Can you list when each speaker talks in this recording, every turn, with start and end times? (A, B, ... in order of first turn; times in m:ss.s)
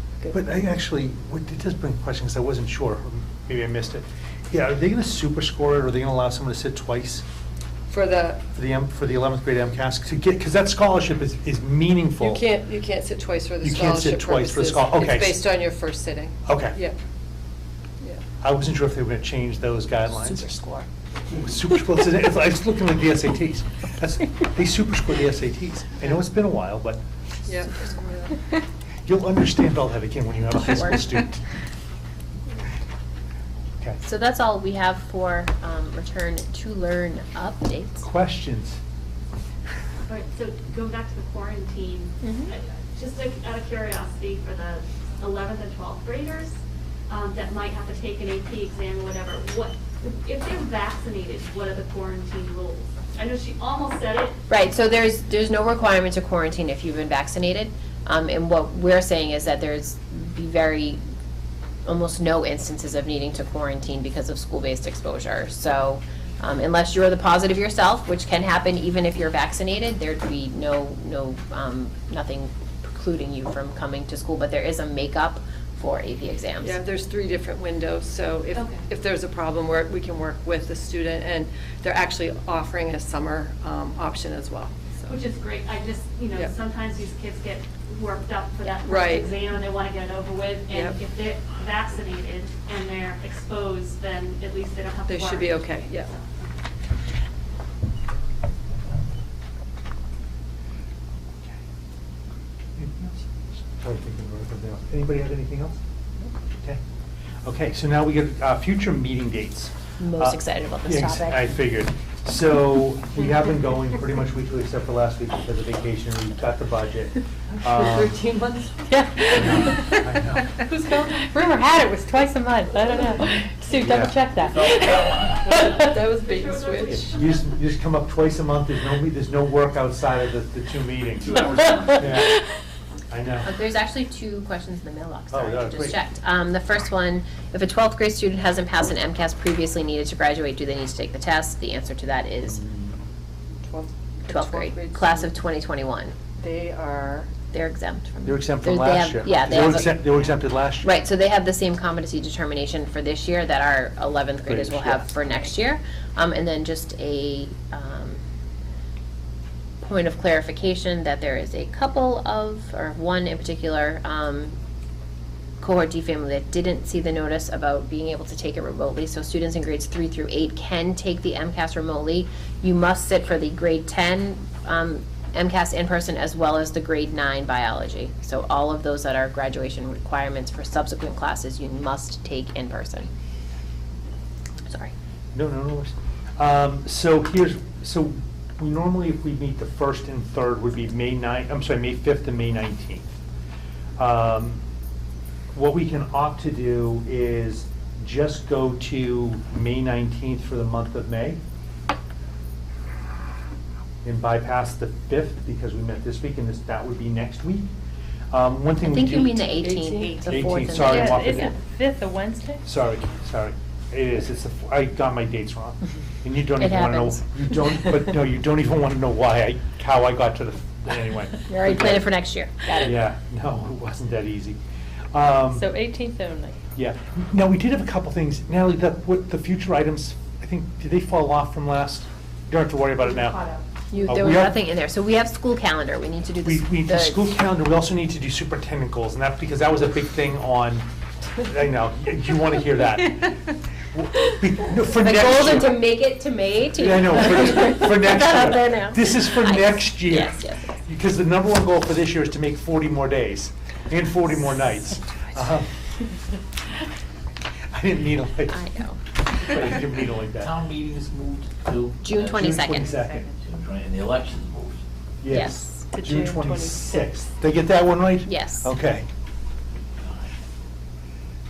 0:00.3-0:07.2 A
0:07.9-0:08.4 B
0:08.5-0:12.5 A
0:12.2-0:17.0 B
0:13.6-0:15.4 A
0:16.4-0:16.8 A
0:18.4-0:20.5 A
0:20.2-0:20.9 B
0:21.3-0:27.0 A
0:27.4-0:28.4 B
0:29.0-0:31.4 A
0:30.6-0:31.0 C
0:34.0-0:38.1 C
0:38.0-0:38.8 A
0:40.1-0:46.6 D
0:42.2-0:42.5 C
0:47.1-0:54.4 D
0:54.5-1:01.0 C
1:01.8-1:16.8 C
1:16.6-1:25.1 B
1:18.5-1:18.8 D
1:25.0-1:36.5 D
1:28.8-1:29.3 B
1:30.7-1:31.0 B
1:35.1-1:36.1 B
1:42.8-1:45.8 A
1:47.4-1:58.2 A
1:50.0-1:51.5 C
1:57.6-1:58.8 B
1:58.9-2:00.2 E
1:59.4-2:00.5 A
2:00.6-2:01.3 B
2:01.1-2:05.9 E
2:03.8-2:04.2 A
2:04.4-2:05.4 F
2:05.4-2:07.0 B
2:06.2-2:07.4 D
2:06.9-2:12.3 A
2:11.2-2:12.1 F
2:13.1-2:13.5 A
2:13.4-2:22.6 C
2:15.3-2:16.0 A
2:22.6-2:22.9 A
2:23.6-2:25.3 B
2:24.3-2:26.1 C
2:26.4-2:27.3 B
2:27.5-2:38.2 C
2:28.2-2:30.9 A
2:34.4-2:35.1 A
2:39.8-2:44.5 C
2:45.6-3:03.1 C
3:05.3-3:13.1 A
3:14.0-3:14.6 A
3:15.5-3:21.4 A
3:24.0-3:27.7 A
3:28.3-3:29.4 A
3:28.8-3:31.5 C
3:29.6-3:30.2 B
3:30.2-3:31.5 A
3:30.8-3:32.6 E
3:32.6-3:42.1 A
3:36.6-3:37.2 C
3:41.5-3:43.0 C
3:42.8-3:44.6 A
3:45.1-3:45.7 A
3:45.5-3:46.6 E
3:46.7-3:53.4 A
3:53.1-3:53.6 D
3:53.9-3:57.3 C
3:54.1-3:54.6 A
3:56.4-4:00.8 A
4:01.4-4:03.3 A
4:03.9-4:05.9 A
4:05.0-4:10.7 C
4:06.7-4:15.7 A
4:17.7-4:18.6 A
4:18.5-4:19.0 C
4:19.4-4:24.8 F
4:19.4-4:20.5 A
4:22.0-4:22.9 C
4:22.4-4:23.3 A
4:23.0-4:23.3 E
4:25.2-4:29.1 A
4:25.3-4:25.9 C
4:25.9-4:26.8 E
4:28.2-4:28.7 C
4:30.0-4:30.3 F